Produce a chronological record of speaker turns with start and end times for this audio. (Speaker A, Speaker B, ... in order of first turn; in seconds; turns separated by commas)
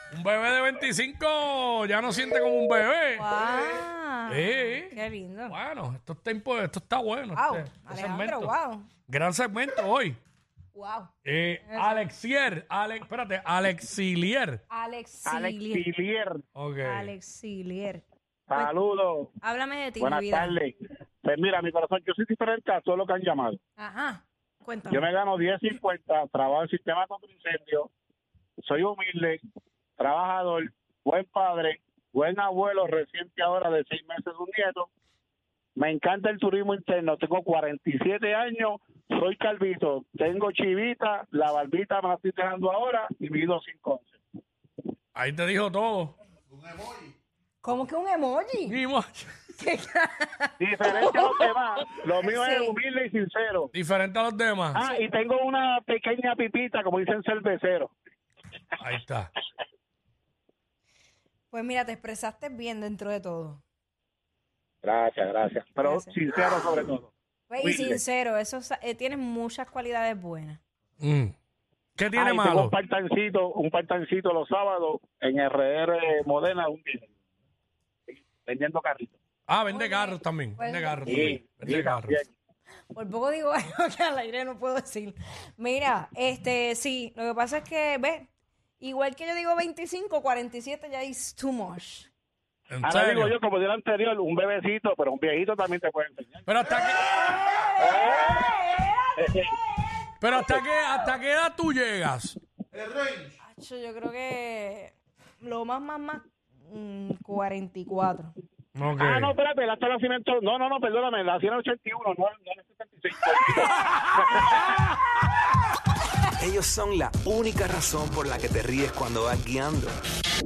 Speaker A: 0.1-3.3, Speaker B: 3.2-5.6, Speaker C: 3.4-3.8, Speaker A: 4.3-5.0, Speaker A: 5.5-8.5, Speaker B: 7.3-8.9, Speaker A: 9.1-10.2, Speaker B: 10.7-11.1, Speaker A: 11.2-14.6, Speaker B: 11.7-12.1, Speaker B: 14.7-15.9, Speaker D: 15.3-16.4, Speaker A: 16.6-17.1, Speaker B: 16.8-18.7, Speaker D: 18.5-19.3, Speaker B: 19.4-20.6, Speaker D: 20.0-23.6, Speaker B: 23.8-25.1, Speaker D: 24.9-27.9, Speaker D: 28.6-29.4, Speaker D: 30.0-34.9, Speaker D: 35.8-44.2, Speaker A: 45.1-46.1, Speaker C: 46.5-47.1, Speaker B: 47.6-48.8, Speaker A: 48.7-49.4, Speaker B: 49.6-51.2, Speaker D: 50.6-53.7, Speaker B: 52.2-52.7, Speaker A: 53.7-54.8, Speaker D: 54.7-57.9, Speaker A: 58.8-59.3, Speaker B: 61.5-63.6, Speaker D: 64.8-67.1, Speaker B: 65.8-66.1, Speaker B: 67.5-70.6, Speaker D: 67.6-68.0, Speaker A: 71.0-71.3, Speaker A: 72.0-72.7, Speaker D: 72.1-77.1, Speaker D: 78.2-79.1, Speaker A: 79.5-82.2, Speaker B: 79.7-81.4, Speaker D: 81.1-82.2, Speaker B: 82.9-88.3, Speaker B: 88.8-92.1, Speaker A: 92.7-93.3, Speaker D: 92.8-96.6, Speaker A: 96.5-97.1, Speaker C: 96.8-97.7, Speaker B: 96.9-100.0, Speaker D: 97.8-98.5, Speaker D: 99.2-99.5, Speaker A: 100.2-102.4, Speaker C: 102.7-103.4, Speaker B: 103.4-108.3, Speaker A: 108.8-109.3, Speaker D: 109.0-114.7, Speaker E: 116.4-120.0